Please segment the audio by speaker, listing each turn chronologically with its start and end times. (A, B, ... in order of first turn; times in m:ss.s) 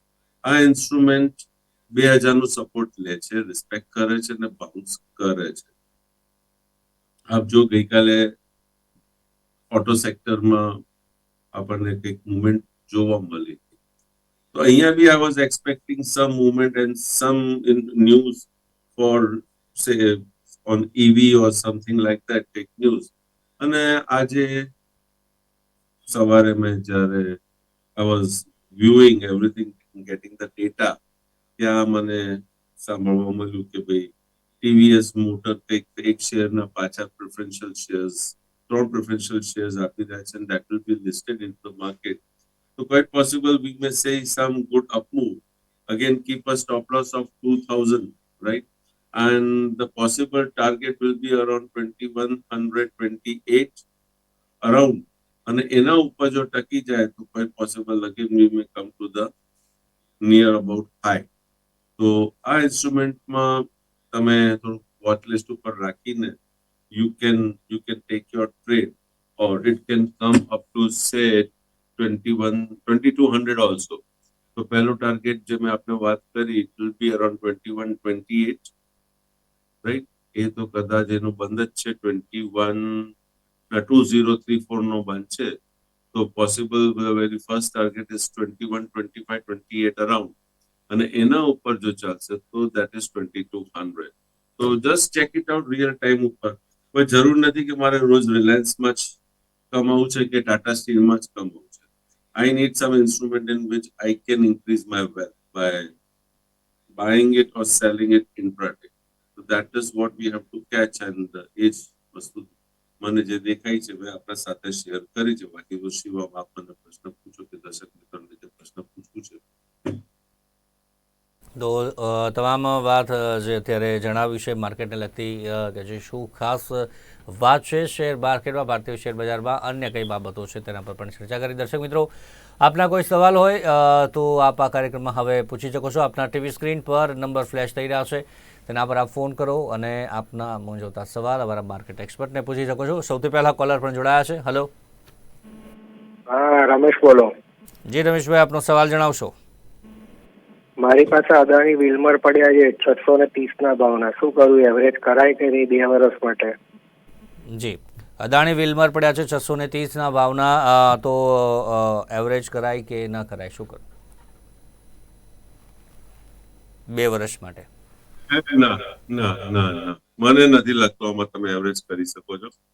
0:00.4-0:05.7 A
0:07.3-0:08.3 A
0:09.7-0:10.8 A
0:11.5-0:13.7 A
0:14.5-0:24.7 A
0:26.1-0:27.4 A
0:28.0-0:30.9 A
0:31.6-0:34.1 A
0:34.6-0:42.2 A
0:42.8-0:53.8 A
0:54.6-0:59.3 A
1:00.2-1:01.3 A
1:02.0-1:06.3 A
1:06.9-1:14.0 A
1:14.6-1:18.7 A
1:19.8-1:23.1 A
1:23.7-1:25.5 A
1:26.1-1:30.3 A
1:30.9-1:39.1 A
1:39.7-1:41.8 A
1:42.4-1:45.9 A
1:46.9-1:52.5 A
1:53.0-2:00.0 A
2:01.6-2:12.1 B
2:12.6-2:24.7 B
2:26.3-2:27.3 C
2:27.9-2:29.3 B
2:30.8-2:36.5 C
2:37.5-2:43.8 B
2:46.9-2:47.7 B
2:48.3-2:52.5 A